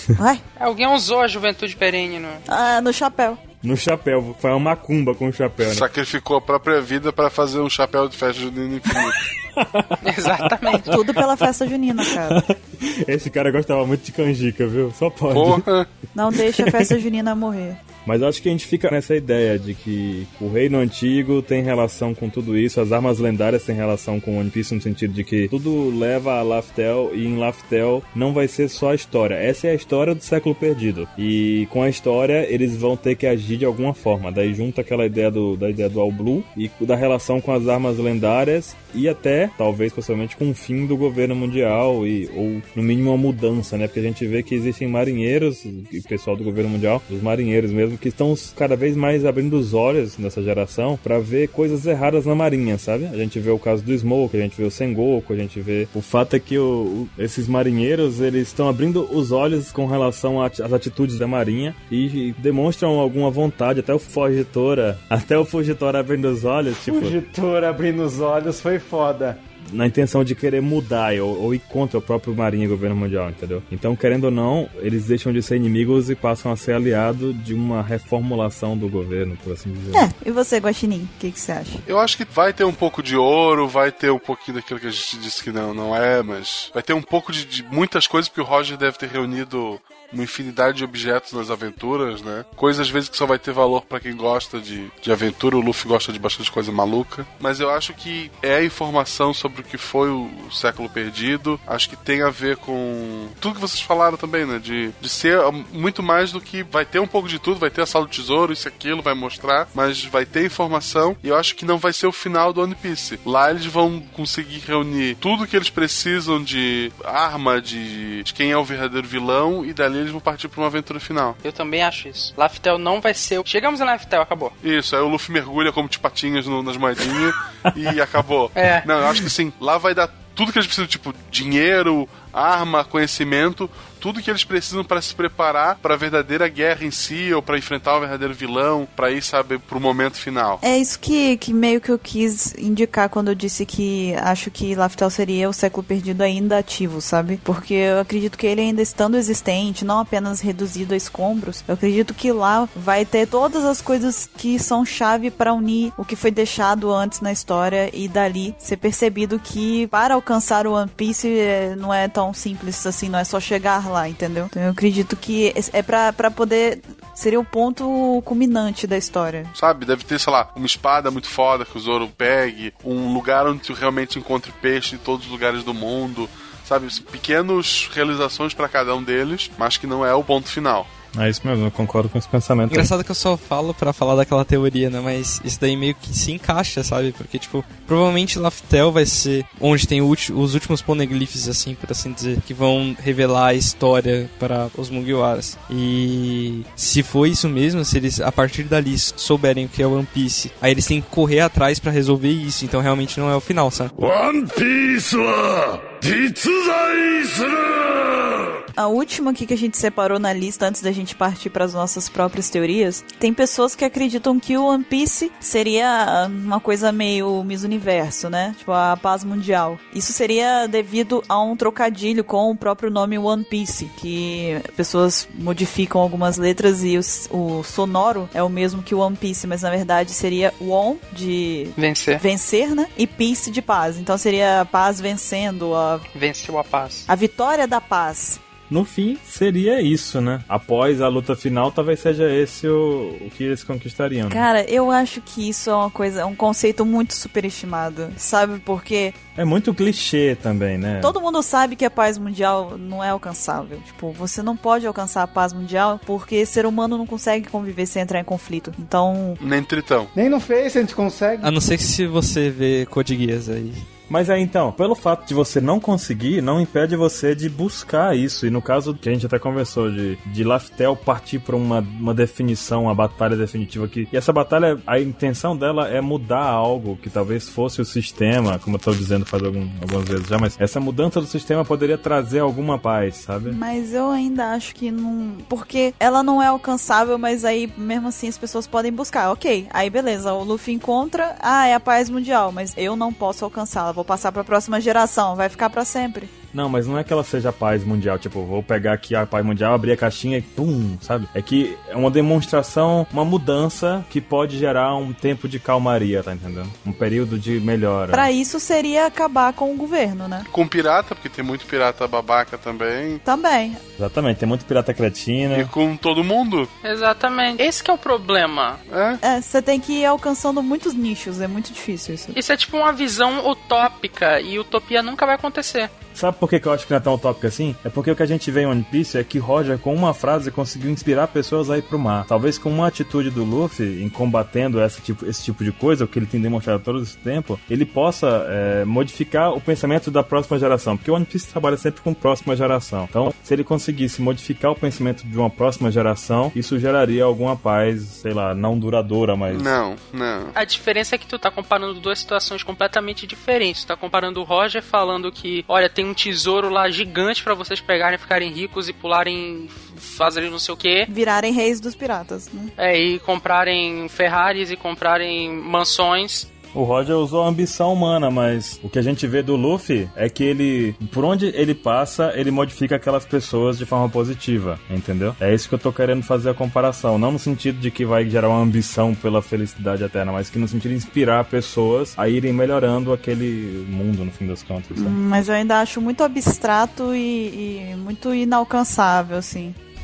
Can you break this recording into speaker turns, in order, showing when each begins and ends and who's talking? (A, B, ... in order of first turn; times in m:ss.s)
0:00.2-0:00.4 A
0:00.6-0:02.4 B
0:02.5-0:03.4 A
0:03.6-0:05.8 C
0:05.6-0:09.2 D
0:09.0-0:11.2 C
0:10.0-0:10.9 B
0:10.9-0:12.4 A
0:12.0-0:15.7 C
0:15.3-0:15.9 D
0:16.2-0:17.8 A
0:16.4-0:16.9 C
0:18.1-1:07.2 C
1:06.8-1:09.4 E
1:09.7-1:20.1 C
1:19.9-1:21.8 A
1:21.9-2:01.4 D
2:01.4-2:04.5 B
2:04.6-2:20.6 D
2:08.6-2:08.9 B
2:20.6-2:49.5 A
2:49.6-3:00.9 D
3:01.1-3:02.9 C
3:02.7-3:23.9 F
3:24.0-3:28.5 G
3:28.8-3:56.1 A
3:51.8-3:52.2 B
3:56.1-3:57.1 B
3:57.1-3:58.4 A
3:58.7-4:04.5 C
4:04.3-4:09.2 A
4:09.4-4:11.2 C
4:11.0-4:19.4 A
4:19.4-4:20.1 D
4:20.2-4:21.5 E
4:21.4-4:23.9 F
4:24.1-4:43.6 C
4:43.5-4:56.3 A
4:56.5-5:08.3 C
5:08.1-5:10.5 A
5:10.5-5:13.2 D
5:13.2-5:13.8 A
5:14.0-5:15.7 C
5:15.5-5:16.7 D
5:16.8-5:18.8 B
5:18.9-5:19.2 D
5:19.2-5:22.4 A
5:22.4-5:25.9 B
5:26.2-5:49.8 C
5:49.5-5:50.6 D
5:50.6-6:01.1 B
6:01.1-6:02.7 A
6:02.8-6:06.5 B
6:06.7-6:25.2 C
6:25.0-6:29.8 A